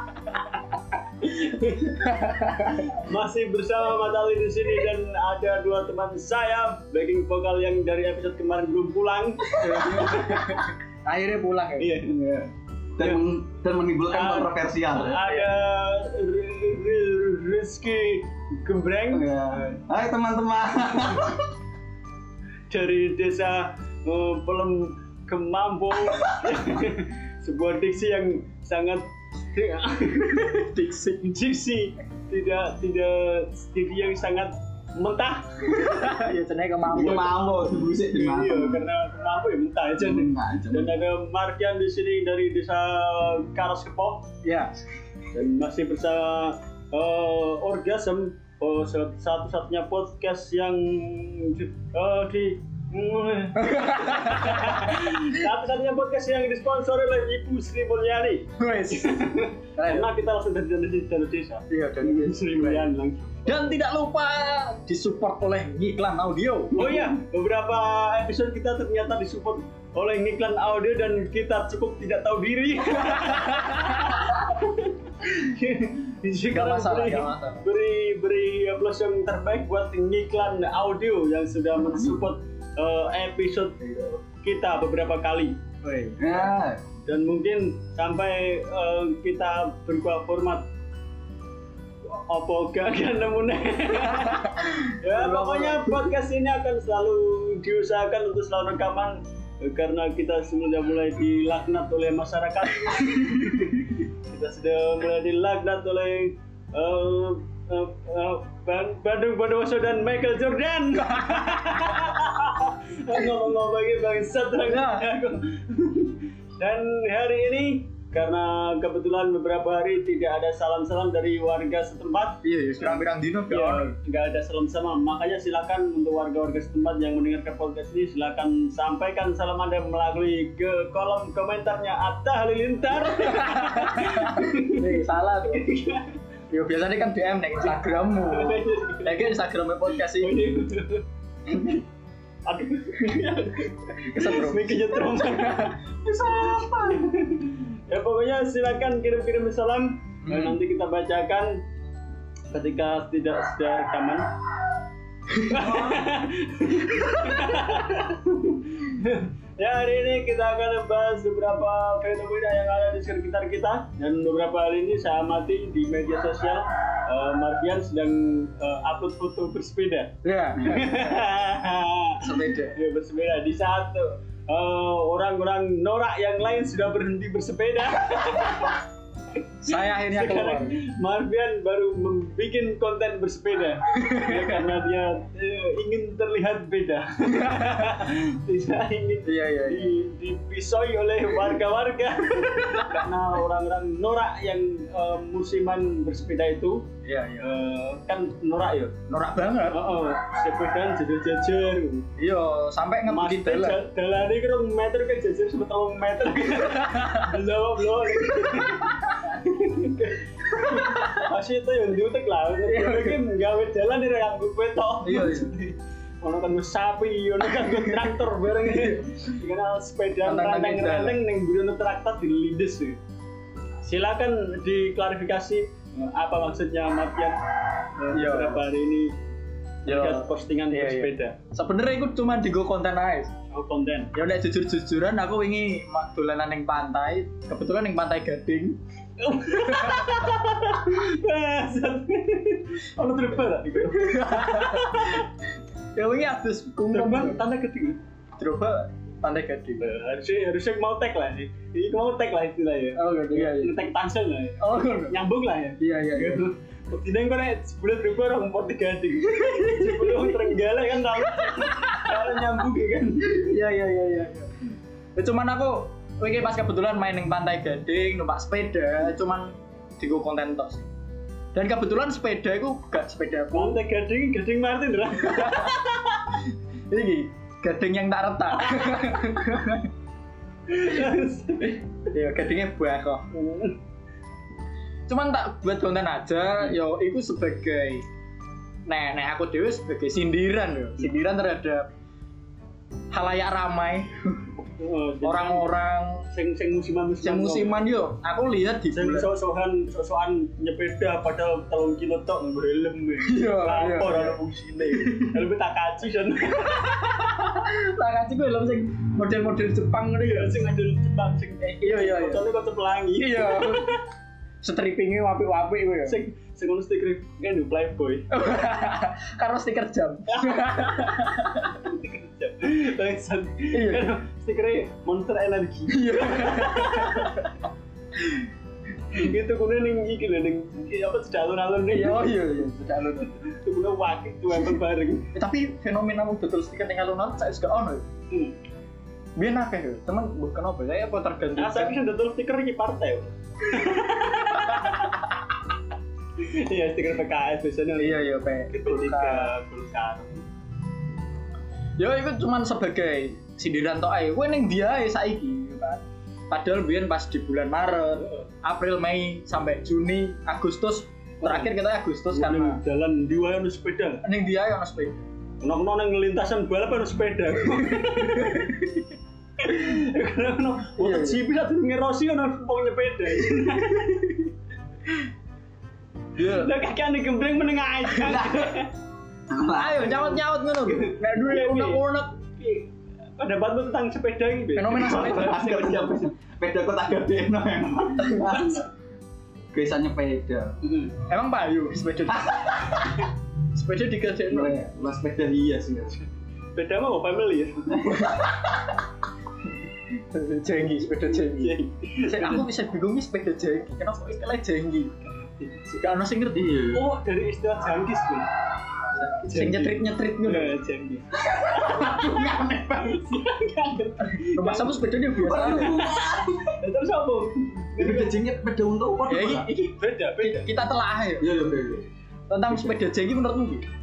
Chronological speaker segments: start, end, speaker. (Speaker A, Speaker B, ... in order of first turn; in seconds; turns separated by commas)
Speaker A: 1.2-2.1, Speaker B: 1.8-2.9, Speaker A: 2.7-10.6, Speaker B: 9.6-11.9, Speaker C: 9.7-10.4, Speaker A: 11.8-12.2, Speaker C: 12.1-15.2, Speaker A: 14.1-19.8, Speaker B: 15.3-15.5, Speaker C: 19.1-21.5, Speaker A: 22.7-30.7, Speaker B: 30.3-31.2, Speaker A: 31.2-36.1, Speaker B: 35.7-37.5, Speaker C: 36.9-38.8, Speaker A: 38.0-44.3, Speaker C: 40.0-41.0, Speaker B: 44.4-44.8, Speaker A: 45.3-63.8, Speaker B: 53.6-55.2, Speaker B: 58.6-60.1, Speaker B: 61.7-62.9, Speaker B: 63.5-66.8, Speaker C: 66.7-67.2, Speaker A: 66.7-85.7, Speaker B: 73.2-74.2, Speaker B: 76.5-77.6, Speaker C: 81.9-82.2, Speaker B: 85.8-86.4, Speaker C: 86.2-86.8, Speaker A: 87.0-90.7, Speaker A: 92.0-136.1, Speaker B: 94.1-96.0, Speaker B: 111.1-112.1, Speaker B: 114.6-115.1, Speaker B: 122.4-123.9, Speaker B: 133.1-135.7, Speaker B: 136.5-140.5, Speaker A: 138.3-139.3, Speaker A: 140.0-141.0, Speaker B: 141.5-141.8, Speaker A: 142.4-151.6, Speaker B: 144.1-145.8, Speaker C: 146.2-147.0, Speaker B: 150.2-150.6, Speaker A: 152.5-154.3, Speaker A: 155.4-178.8, Speaker C: 155.5-156.1, Speaker B: 170.2-171.2, Speaker B: 172.2-172.8, Speaker B: 179.6-180.8, Speaker A: 179.7-196.9, Speaker B: 183.9-184.5, Speaker B: 187.3-188.0, Speaker B: 189.2-189.9, Speaker B: 197.0-197.5, Speaker A: 197.4-198.9, Speaker B: 199.1-199.8, Speaker A: 199.7-202.1, Speaker B: 202.2-203.8, Speaker A: 203.1-223.0, Speaker B: 206.6-207.3, Speaker B: 208.4-209.0, Speaker B: 210.6-211.2, Speaker B: 212.7-213.2, Speaker B: 215.0-215.6, Speaker B: 218.7-219.1, Speaker B: 220.2-221.2, Speaker A: 223.8-229.2, Speaker B: 228.1-228.6, Speaker A: 229.8-231.3, Speaker B: 229.8-233.3, Speaker A: 233.5-234.1, Speaker B: 234.1-238.8, Speaker A: 239.2-245.2, Speaker B: 239.5-240.2, Speaker B: 243.9-245.2, Speaker B: 245.9-247.4, Speaker A: 246.9-248.0, Speaker B: 248.4-249.8, Speaker A: 249.8-263.5, Speaker B: 253.0-253.8, Speaker B: 254.6-255.2, Speaker B: 255.8-256.4, Speaker B: 259.3-260.4, Speaker B: 261.3-262.3, Speaker B: 263.3-264.5, Speaker B: 265.1-270.9, Speaker B: 271.5-273.8, Speaker A: 273.5-276.2, Speaker B: 275.2-275.9, Speaker B: 276.9-279.9, Speaker A: 278.7-279.0, Speaker A: 280.7-281.8, Speaker B: 282.0-283.3, Speaker A: 283.3-283.8, Speaker B: 285.1-288.0, Speaker B: 288.9-291.9, Speaker B: 293.1-294.5, Speaker A: 294.8-295.7, Speaker B: 295.2-296.2, Speaker A: 296.3-297.8, Speaker B: 297.2-299.3, Speaker A: 298.9-307.4, Speaker B: 303.2-305.4, Speaker B: 307.0-310.7, Speaker A: 310.2-314.0, Speaker B: 311.8-312.4, Speaker B: 313.2-314.0, Speaker B: 314.6-316.2, Speaker A: 316.1-318.3, Speaker B: 318.3-321.7, Speaker A: 320.3-327.5, Speaker B: 323.7-324.1, Speaker B: 325.9-327.5, Speaker A: 329.1-332.3, Speaker B: 331.9-333.4, Speaker A: 333.2-335.3, Speaker B: 335.3-338.0, Speaker A: 338.3-338.5, Speaker B: 339.4-341.9, Speaker A: 341.6-345.2, Speaker B: 344.5-345.1, Speaker A: 346.4-350.4, Speaker B: 348.0-349.5, Speaker B: 352.0-362.8, Speaker A: 358.2-358.5, Speaker A: 361.4-361.7, Speaker A: 362.3-364.2, Speaker B: 364.2-365.2, Speaker A: 365.6-368.8, Speaker B: 368.0-368.8, Speaker A: 369.6-374.5, Speaker B: 371.0-371.4, Speaker B: 376.4-376.7, Speaker A: 376.4-378.9, Speaker C: 378.2-378.8, Speaker C: 379.5-380.4, Speaker B: 379.7-382.4, Speaker A: 380.1-380.3, Speaker A: 380.8-382.0, Speaker A: 382.6-385.3, Speaker B: 384.7-386.2, Speaker C: 384.9-388.9, Speaker B: 388.2-388.8, Speaker C: 389.7-390.8, Speaker A: 390.8-391.1, Speaker B: 391.2-394.8, Speaker C: 394.5-396.1, Speaker A: 396.7-398.0, Speaker C: 397.9-398.3, Speaker B: 398.1-398.9, Speaker B: 400.2-405.1, Speaker A: 401.3-402.7, Speaker A: 405.4-406.0, Speaker B: 406.0-406.8, Speaker C: 406.5-407.0, Speaker A: 406.9-408.5, Speaker B: 409.2-410.7, Speaker A: 409.4-412.3, Speaker C: 411.3-413.2, Speaker A: 413.0-418.4, Speaker B: 414.3-416.0, Speaker C: 415.4-416.7, Speaker C: 418.0-419.7, Speaker B: 419.3-421.6, Speaker A: 420.0-420.7, Speaker C: 421.4-422.1, Speaker B: 422.5-423.8, Speaker C: 422.7-422.9